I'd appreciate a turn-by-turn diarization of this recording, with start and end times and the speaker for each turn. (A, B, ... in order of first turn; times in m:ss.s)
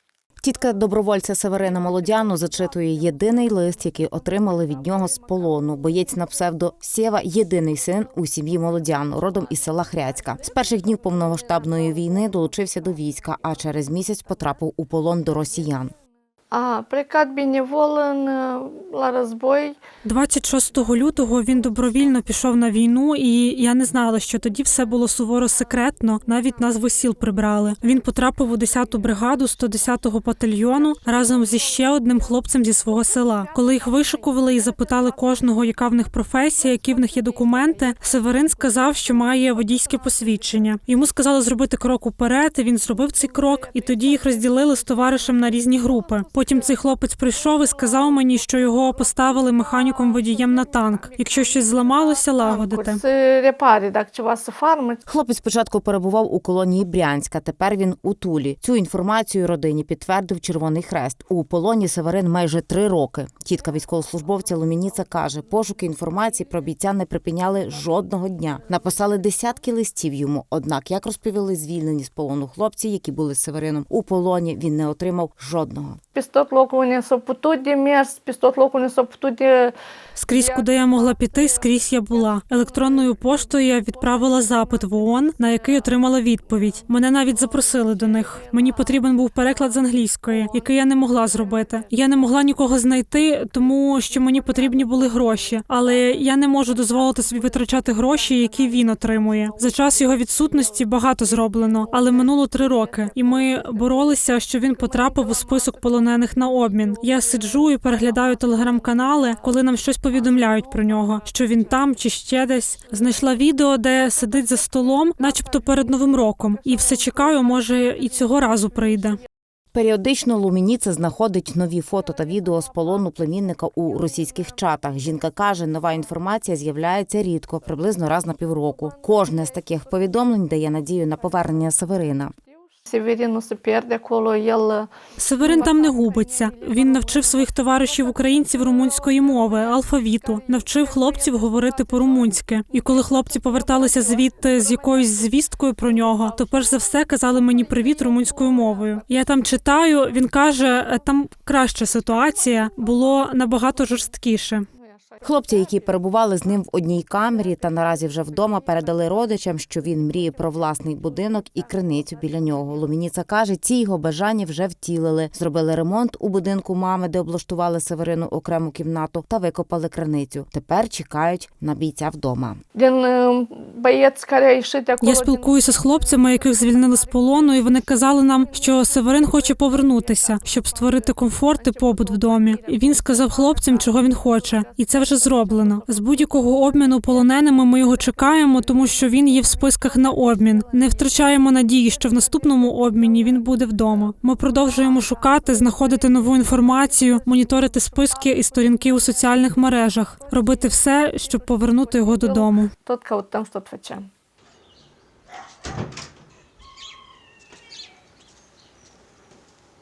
0:00.4-0:15.9 A
0:16.5-0:19.8 B
0:20.0-0:53.0 C
0:52.4-0:55.0 B
0:55.1-1:16.0 A
1:16.1-1:19.7 B
1:20.2-1:59.2 C
1:59.7-2:12.3 A
2:12.8-2:14.9 B
2:15.2-2:34.7 C
2:15.4-2:15.7 B
2:35.2-2:52.6 A
2:52.7-2:55.5 B
2:55.0-3:22.7 C
3:22.2-3:24.1 B